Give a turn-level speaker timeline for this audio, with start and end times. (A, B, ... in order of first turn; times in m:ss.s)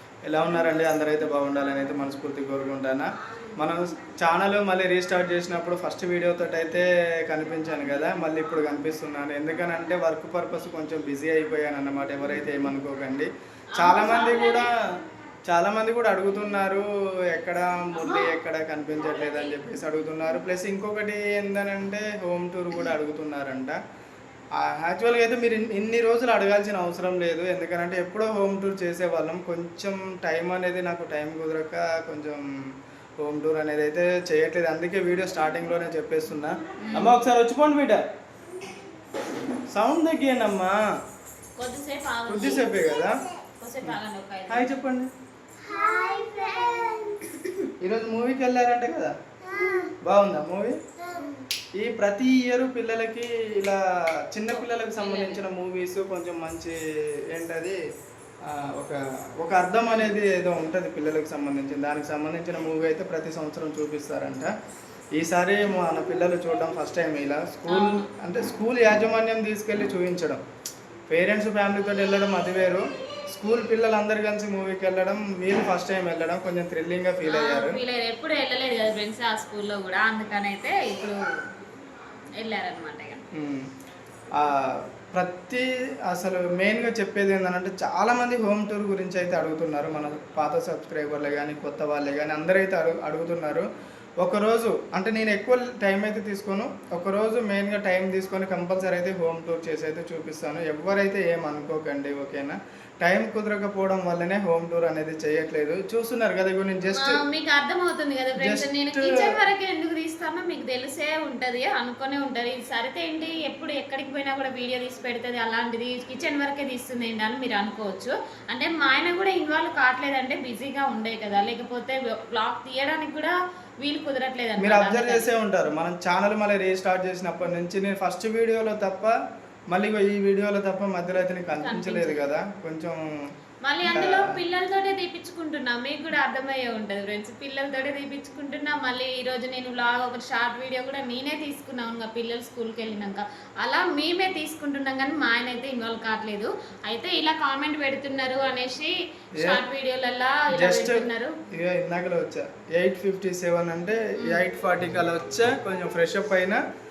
0:00.2-0:14.7 A
0:13.7-0:14.7 B
0:15.5-0:23.8 A
0:17.9-0:18.3 B
0:19.1-0:19.5 B
0:24.6-0:32.4 A
0:33.2-0:38.0 A
0:36.8-0:37.2 B
0:39.7-0:40.8 A
0:41.6-0:42.8 B
0:42.3-0:43.2 A
0:43.5-0:44.7 B
0:44.5-0:45.1 A
0:45.6-0:47.5 B
0:47.8-0:49.1 A
0:49.5-0:49.9 B
0:50.0-0:50.8 A
0:51.8-0:56.8 A
0:54.5-0:55.4 B
0:57.3-0:57.8 A
0:58.4-1:04.5 A
0:59.8-1:00.1 B
1:05.2-1:10.4 A
1:07.7-1:08.1 B
1:11.1-1:17.8 A
1:17.2-1:21.2 B
1:22.4-1:23.2 B
1:23.3-1:23.7 A
1:24.4-1:33.7 A
1:34.2-1:47.2 A
1:46.9-2:05.3 B
1:48.4-1:49.3 A
2:04.6-2:09.1 A
2:09.7-2:13.0 A
2:11.6-2:12.3 B
2:13.6-2:31.4 B
2:13.8-2:14.4 A
2:30.6-2:36.6 A
2:34.2-2:34.4 B